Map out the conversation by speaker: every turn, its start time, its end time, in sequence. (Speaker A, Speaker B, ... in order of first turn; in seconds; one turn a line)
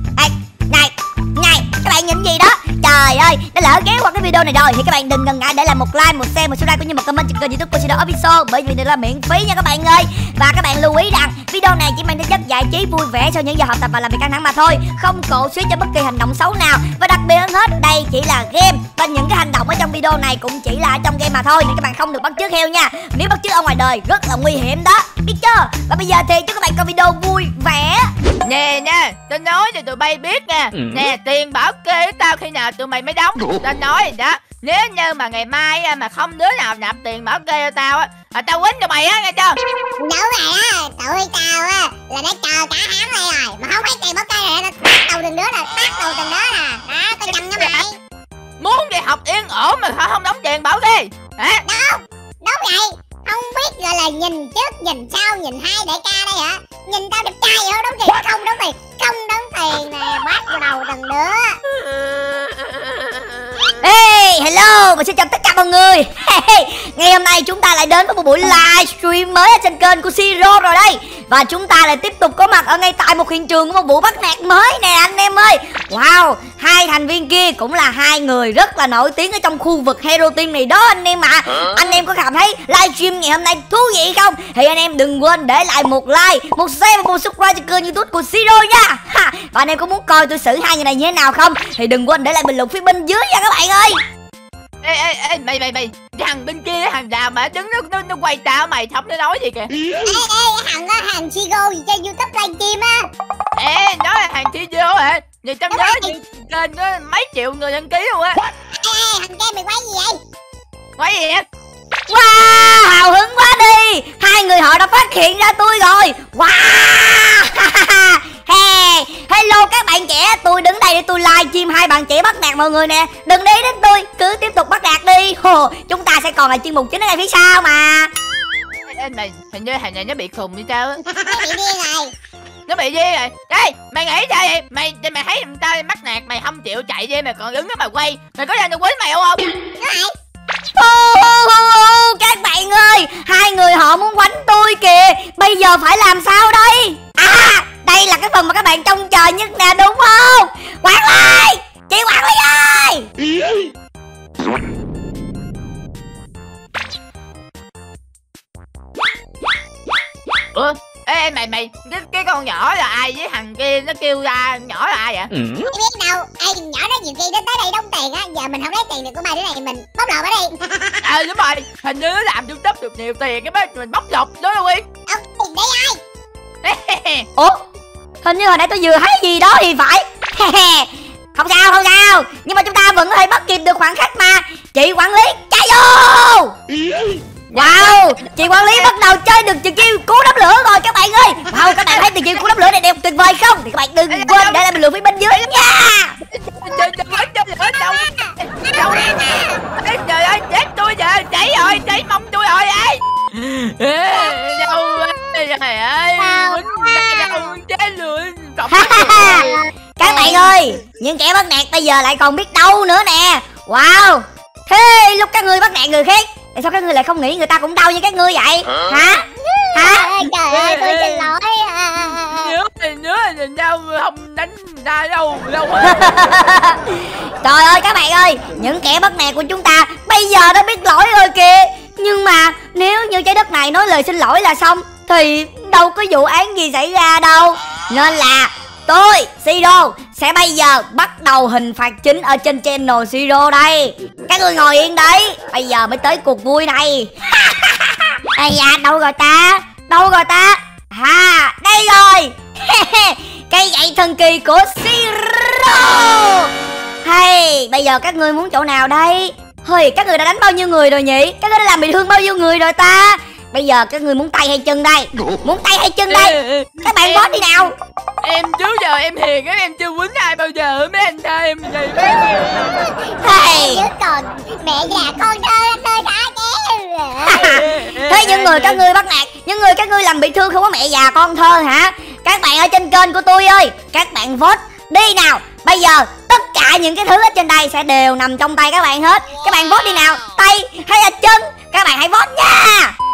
Speaker A: 0.2-28.1
Speaker B: 28.4-39.6
Speaker C: 40.0-48.0
Speaker B: 47.2-47.8
Speaker B: 48.6-51.6
Speaker C: 51.7-61.6
Speaker B: 61.7-63.7
Speaker A: 63.8-94.0
Speaker B: 94.8-99.7
Speaker C: 100.0-103.1
Speaker B: 103.6-108.4
Speaker C: 105.7-106.2
Speaker C: 108.8-110.2
Speaker B: 111.0-111.5
Speaker A: 112.1-128.1
Speaker B: 128.9-131.0
Speaker C: 131.1-132.1
Speaker B: 132.7-139.5
Speaker C: 139.8-140.1
Speaker A: 140.8-153.1
Speaker B: 160.6-165.5
Speaker C: 165.5-170.5
Speaker B: 171.0-174.8
Speaker C: 175.1-176.0
Speaker B: 176.6-177.3
Speaker A: 177.4-177.6
Speaker A: 178.2-186.6
Speaker B: 187.5-188.9
Speaker A: 187.5-196.2
Speaker B: 194.1-194.6
Speaker B: 196.3-209.6
Speaker C: 196.7-199.6
Speaker C: 204.1-205.2
Speaker C: 206.2-207.6
Speaker A: 208.7-219.2
Speaker C: 209.2-210.5
Speaker C: 218.9-222.6
Speaker A: 219.8-220.3
Speaker B: 220.5-221.3
Speaker B: 222.1-226.0
Speaker A: 225.8-256.5
Speaker A: 257.0-267.7
Speaker B: 266.1-267.7
Speaker B: 268.2-272.8
Speaker C: 272.1-277.7
Speaker A: 273.2-273.9
Speaker A: 277.3-292.9
Speaker B: 277.3-278.8